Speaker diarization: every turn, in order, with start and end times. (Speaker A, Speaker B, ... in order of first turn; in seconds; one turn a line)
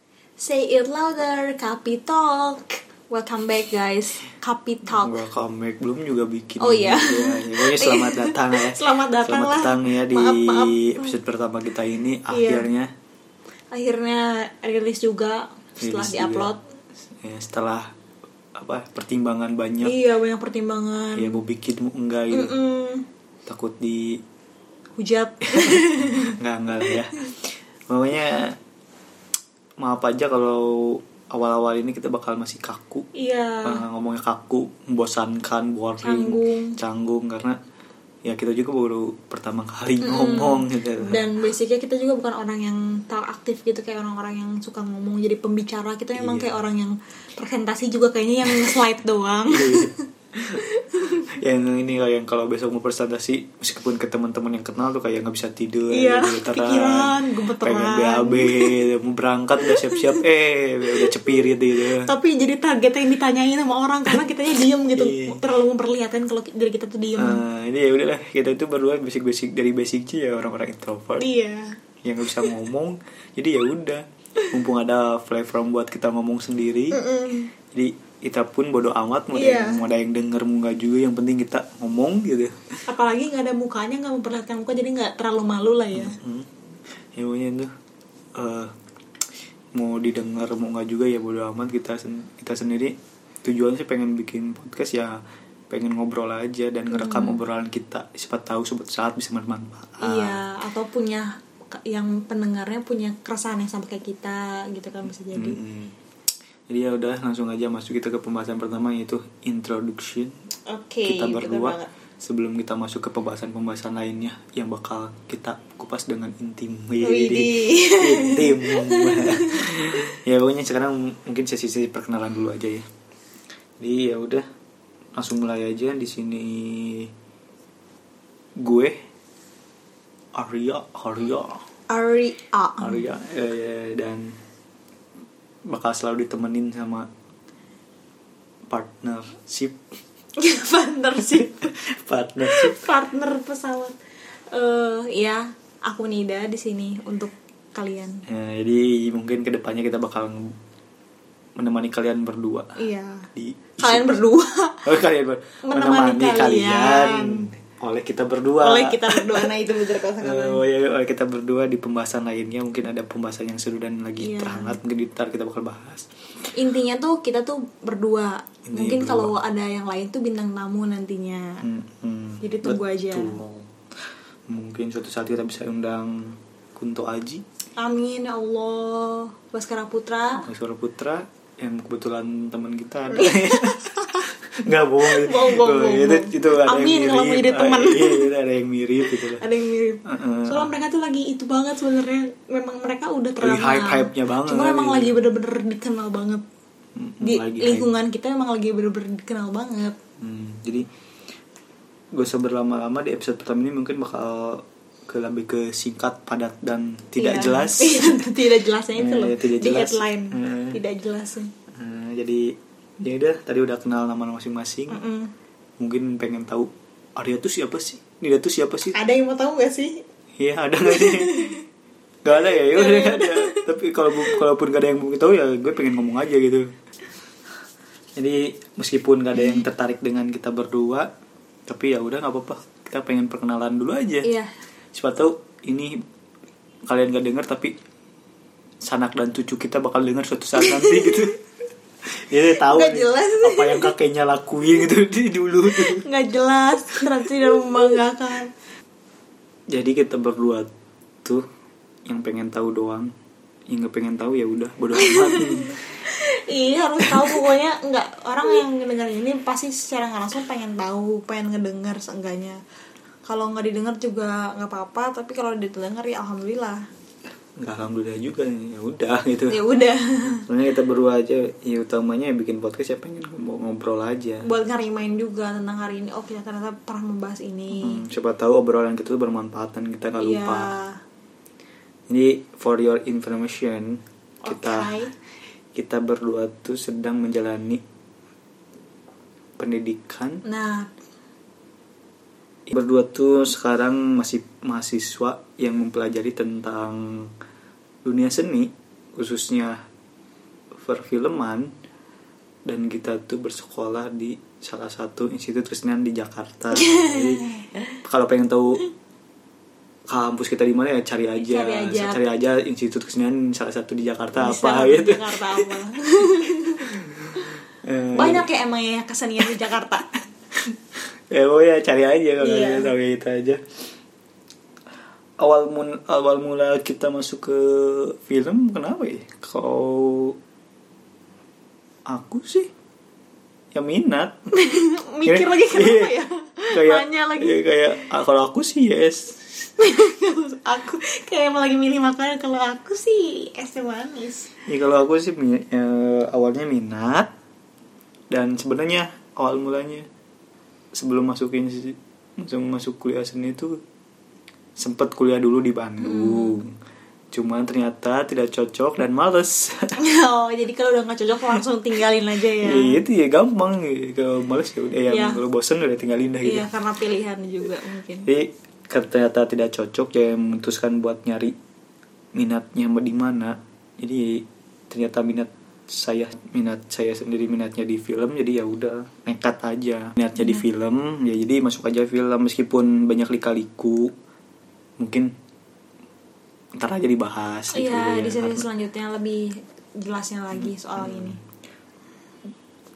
Speaker A: 0.4-5.2
Speaker B: 4.9-12.9
Speaker A: 6.6-11.1
Speaker A: 12.3-12.7
Speaker A: 13.7-16.6
Speaker B: 15.8-16.5
Speaker B: 17.2-17.9
Speaker B: 18.6-19.9
Speaker A: 19.8-21.4
Speaker B: 21.2-22.6
Speaker A: 22.3-23.1
Speaker B: 23.5-24.2
Speaker A: 25.0-26.3
Speaker B: 25.6-28.6
Speaker A: 26.9-27.2
Speaker B: 29.8-33.1
Speaker A: 33.1-33.8
Speaker B: 33.6-37.6
Speaker A: 36.0-36.8
Speaker B: 38.3-41.2
Speaker A: 40.0-50.0
Speaker B: 46.1-46.5
Speaker B: 48.5-48.8
Speaker B: 49.5-50.6
Speaker A: 50.5-51.2
Speaker B: 51.2-62.1
Speaker A: 55.9-58.8
Speaker A: 59.6-60.2
Speaker A: 60.9-61.4
Speaker A: 62.0-67.4
Speaker B: 65.0-65.4
Speaker B: 67.2-71.2
Speaker A: 71.2-71.8
Speaker B: 72.0-77.0
Speaker A: 76.9-77.5
Speaker B: 77.7-82.6
Speaker A: 79.3-79.8
Speaker A: 82.9-86.2
Speaker B: 85.9-86.5
Speaker B: 87.2-87.7
Speaker B: 88.4-88.7
Speaker B: 89.8-95.2
Speaker B: 95.7-100.4
Speaker A: 96.9-97.4
Speaker A: 100.0-105.6
Speaker B: 105.3-105.9
Speaker B: 106.7-110.3
Speaker A: 110.7-111.9
Speaker B: 111.1-122.8
Speaker A: 117.0-119.7
Speaker B: 123.8-124.5
Speaker B: 125.2-127.1
Speaker B: 128.6-128.9
Speaker B: 130.4-131.6
Speaker A: 131.9-133.0
Speaker B: 132.8-134.3
Speaker B: 135.7-137.1
Speaker B: 138.7-139.8
Speaker A: 140.4-141.6
Speaker B: 141.2-142.8
Speaker A: 142.5-144.0
Speaker A: 144.5-148.2
Speaker B: 148.3-150.4
Speaker B: 151.6-152.7
Speaker A: 152.8-153.3
Speaker B: 153.3-154.2
Speaker A: 153.8-154.9
Speaker B: 154.8-159.5
Speaker A: 155.6-157.5
Speaker A: 158.6-160.6
Speaker B: 160.2-166.1
Speaker A: 164.2-164.8
Speaker A: 166.5-171.6
Speaker B: 168.7-169.3
Speaker B: 171.6-173.7
Speaker A: 172.4-173.4
Speaker B: 174.5-177.4
Speaker A: 177.8-180.4
Speaker B: 180.4-189.4
Speaker A: 183.1-184.2
Speaker A: 185.0-188.3
Speaker A: 189.0-196.4
Speaker B: 190.1-190.7
Speaker B: 193.4-195.2
Speaker B: 197.0-197.9
Speaker A: 197.2-200.0
Speaker B: 200.2-200.9
Speaker B: 202.2-208.3
Speaker A: 207.2-211.5
Speaker B: 209.0-210.8
Speaker B: 211.7-215.0
Speaker A: 214.9-215.3
Speaker B: 215.8-218.9
Speaker A: 218.9-220.0
Speaker B: 220.4-221.6
Speaker A: 220.9-221.6
Speaker B: 222.2-226.7
Speaker A: 222.7-223.7
Speaker B: 228.2-231.1
Speaker B: 231.7-234.3
Speaker A: 234.2-234.5
Speaker B: 234.9-235.9
Speaker B: 236.9-237.7
Speaker B: 238.9-241.3
Speaker A: 240.6-241.3
Speaker B: 242.3-246.0
Speaker A: 242.4-243.9
Speaker A: 245.7-248.5
Speaker B: 249.7-250.7
Speaker B: 252.1-253.1
Speaker B: 253.7-255.8
Speaker A: 255.0-262.6
Speaker B: 257.0-257.3
Speaker A: 263.3-266.8
Speaker B: 267.6-269.6
Speaker A: 269.5-270.4
Speaker B: 270.4-274.5
Speaker A: 274.4-278.0
Speaker B: 277.8-280.7
Speaker A: 280.2-280.9
Speaker B: 282.1-284.9
Speaker A: 284.4-285.1
Speaker B: 285.8-287.8
Speaker B: 289.6-290.4
Speaker A: 290.4-290.9
Speaker B: 292.7-297.3
Speaker B: 298.1-299.8
Speaker B: 300.8-301.7
Speaker B: 302.7-307.4
Speaker A: 306.7-307.8
Speaker B: 308.0-308.9
Speaker B: 310.1-315.7
Speaker A: 311.4-312.2
Speaker A: 314.4-316.9
Speaker B: 317.9-318.5
Speaker A: 318.1-320.1
Speaker B: 321.3-323.6
Speaker A: 322.4-322.9
Speaker B: 325.4-330.4
Speaker B: 332.1-332.7
Speaker B: 333.7-334.4
Speaker A: 334.5-337.6
Speaker B: 335.2-336.2
Speaker B: 336.7-339.7
Speaker A: 339.8-344.5
Speaker B: 344.7-347.3
Speaker B: 348.3-350.1
Speaker B: 350.9-353.8
Speaker B: 354.8-356.7
Speaker A: 356.0-356.6
Speaker B: 357.3-359.9
Speaker A: 360.0-363.0
Speaker B: 362.6-366.7
Speaker A: 365.1-365.4
Speaker A: 366.4-368.3
Speaker B: 368.3-371.5
Speaker B: 372.4-384.1
Speaker B: 385.0-385.3
Speaker B: 386.8-388.6
Speaker A: 387.7-391.4
Speaker B: 390.6-391.4